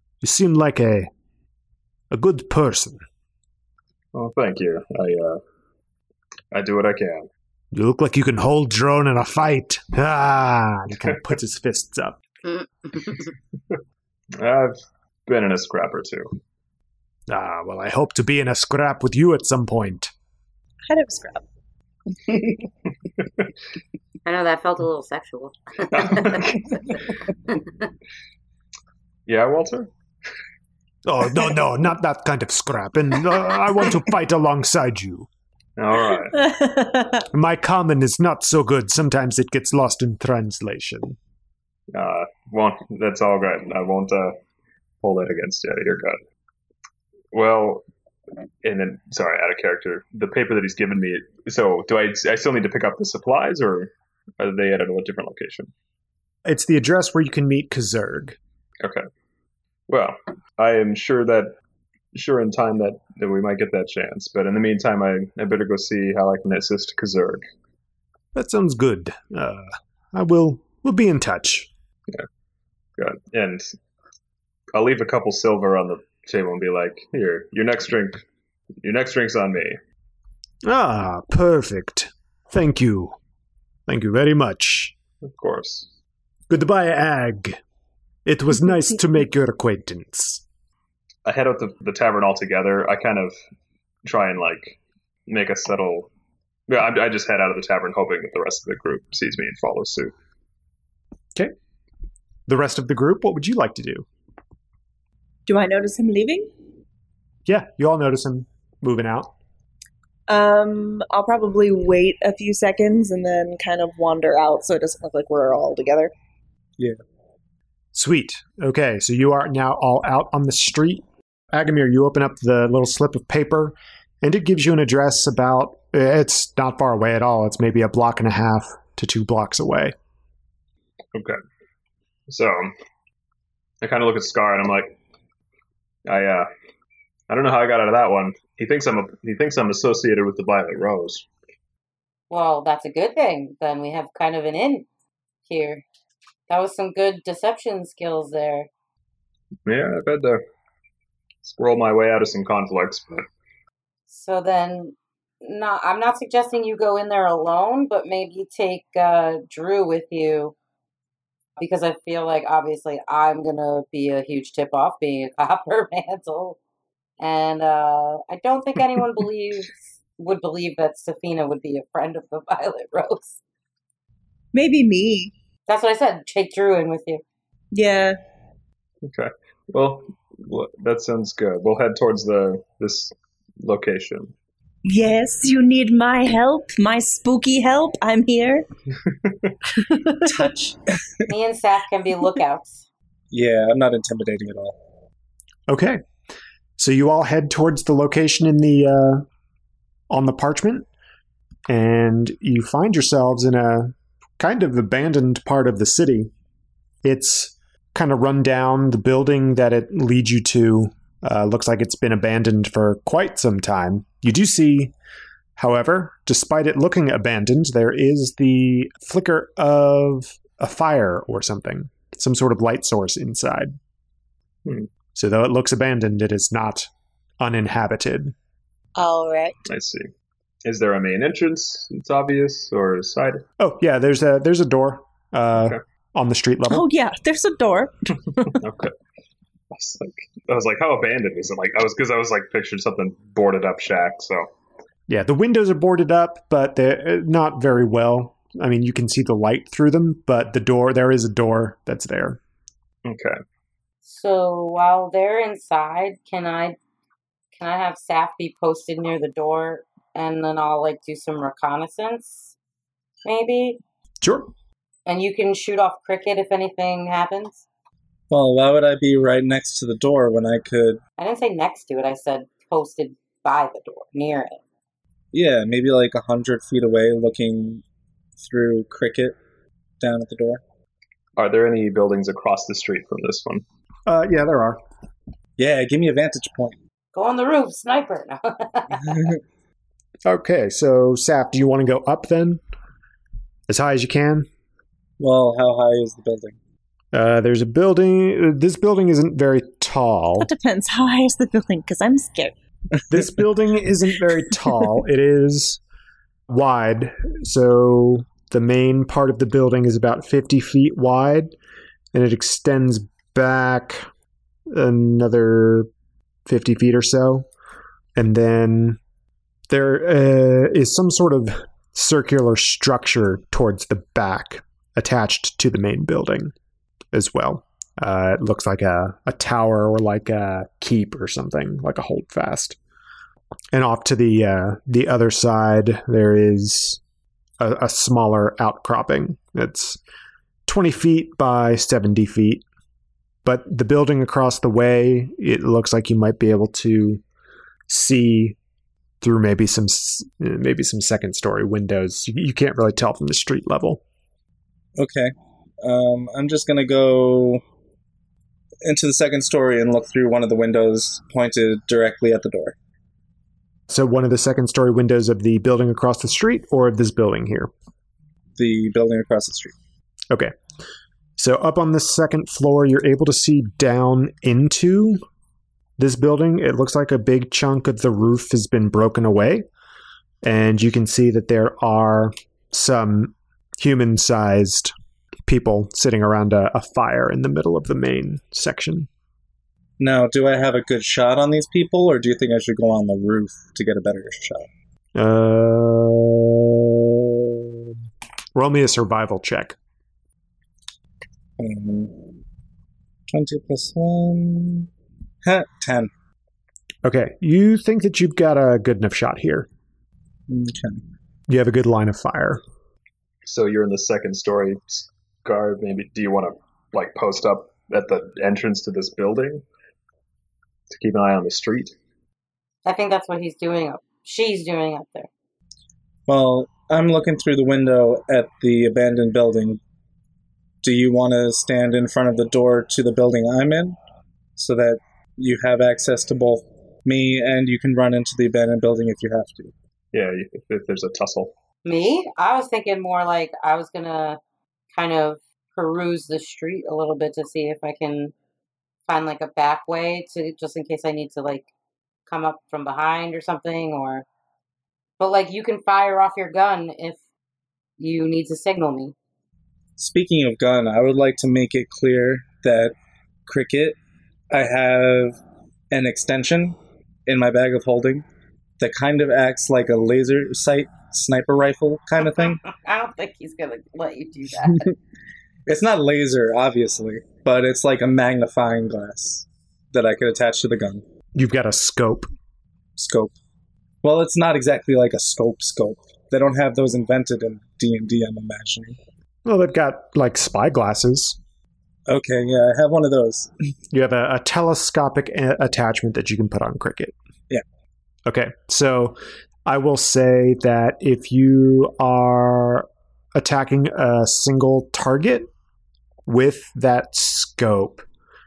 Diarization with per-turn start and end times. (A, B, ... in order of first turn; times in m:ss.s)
0:00.2-0:01.1 A
0:02.1-0:03.0 A
0:04.1-0:05.4 B
0:06.5-0:07.3 B
0:07.7-0:12.2 A
0:12.5-0:13.2 C
0:14.4-0:16.4 B
0:17.3-0:20.1 A
0:20.9-0:21.4 D
0:24.2-0:26.5 C
0:25.9-0:26.6 B
0:29.2-0:29.9 B
0:31.0-0:35.3 A
0:35.8-0:36.4 B
0:36.4-0:37.2 D
0:37.3-0:41.2 A
0:41.9-0:44.4 B
0:45.0-0:46.2 B
0:47.3-0:47.8 B
0:48.6-0:55.7 B
0:56.4-0:58.4 A
0:59.9-1:01.5 B
1:02.1-1:07.4 B
1:08.3-1:11.7 A
1:13.0-1:13.8 B
1:14.7-1:18.2 B
1:18.8-1:19.8 B
1:20.6-1:23.1 A
1:23.9-1:24.9 A
1:25.2-1:25.9 B
1:26.5-1:27.6 A
1:28.2-1:30.4 A
1:31.2-1:33.3 B
1:34.0-1:36.1 B
1:36.7-1:40.1 B
1:42.5-1:44.0 A
1:45.4-1:46.5 D
1:47.5-1:49.3 A
1:50.3-1:56.1 D
1:57.9-2:09.9 A
2:12.3-2:12.7 B
2:13.8-2:15.0 B
2:16.0-2:16.5 B
2:17.3-2:21.3 B
2:22.3-2:24.9 C
2:25.4-2:25.8 C
2:26.5-2:28.7 C
2:29.6-2:30.4 B
2:31.4-2:33.3 B
2:34.1-2:40.5 C
2:41.6-2:46.6 C
2:47.2-2:53.4 C
2:54.5-2:55.3 D
2:55.7-2:57.2 C
2:57.7-2:58.2 D
2:59.0-3:04.3 B
3:04.8-3:08.6 D
3:09.2-3:09.5 B
3:09.8-3:10.8 D
3:11.3-3:12.8 C
3:13.3-3:14.8 E
3:15.7-3:16.0 A
3:16.8-3:19.2 A
3:20.1-3:20.9 A
3:21.7-3:26.3 A
3:27.0-3:34.9 A
3:35.6-3:43.8 A
3:45.1-3:48.3 A
3:49.0-3:49.6 D
3:49.7-3:50.1 B
3:50.6-3:53.4 B
3:53.6-3:56.9 A
3:56.7-3:58.6 D
3:58.6-3:58.9 B
3:59.7-4:04.5 B
4:05.1-4:12.4 A
4:13.0-4:13.4 B
4:14.0-4:16.8 C
4:17.5-4:22.5 C
4:23.2-4:23.8 C
4:24.2-4:24.5 A
4:25.0-4:27.6 C
4:28.3-4:31.0 E
4:31.2-4:34.6 C
4:35.3-4:37.8 E
4:38.4-4:39.4 E
4:40.0-4:40.6 E
4:41.4-4:43.6 B
4:44.0-4:44.8 A
4:45.6-4:46.8 E
4:47.1-4:49.3 C
4:50.2-4:52.6 A
4:53.7-4:54.5 A
4:55.2-4:56.6 E
4:57.1-5:00.5 A
5:00.4-5:02.5 D
5:03.1-5:05.8 A
5:06.5-5:11.5 A
5:12.1-5:14.1 A
5:14.7-5:15.9 A
5:16.4-5:17.5 A
5:18.2-5:19.0 A
5:19.7-5:26.5 A
5:27.1-5:32.8 A
5:33.7-5:37.0 A
5:37.6-5:40.0 A
5:40.6-5:42.6 A
5:43.4-5:47.2 A
5:47.9-5:48.6 A
5:49.2-5:54.0 A
5:55.0-5:55.3 E
5:55.8-5:57.6 E
5:58.8-6:02.7 E
6:03.9-6:07.7 A
6:08.6-6:09.7 E
6:11.4-6:15.2 A
6:16.0-6:19.6 A
6:20.4-6:24.9 A
6:25.4-6:29.1 A
6:30.0-6:34.7 E
6:35.1-6:37.6 A
6:38.5-6:39.8 A
6:41.6-6:42.3 E
6:43.3-6:44.9 E
6:45.4-6:46.1 E
6:47.0-6:49.7 A
6:50.5-6:51.0 E
6:51.5-6:52.6 A
6:53.4-6:59.6 B
7:00.9-7:01.9 B
7:02.8-7:05.3 C
7:06.3-7:09.8 E
7:10.8-7:14.0 E
7:14.6-7:19.7 E
7:20.1-7:21.5 B
7:21.8-7:24.4 C
7:24.9-7:28.3 C
7:29.1-7:31.7 C
7:32.3-7:34.2 C
7:35.2-7:37.2 C
7:38.0-7:39.1 C
7:40.0-7:42.9 E
7:43.5-7:44.0 E
7:44.5-7:45.4 E
7:45.9-7:48.2 E
7:48.8-7:52.6 E
7:52.4-7:54.9 C
7:55.7-8:01.0 E
8:01.3-8:02.3 A
8:03.0-8:03.3 E
8:04.0-8:09.0 E
8:09.4-8:11.4 A
8:12.1-8:13.5 E
8:13.9-8:17.1 A
8:18.2-8:25.5 A
8:26.2-8:28.0 A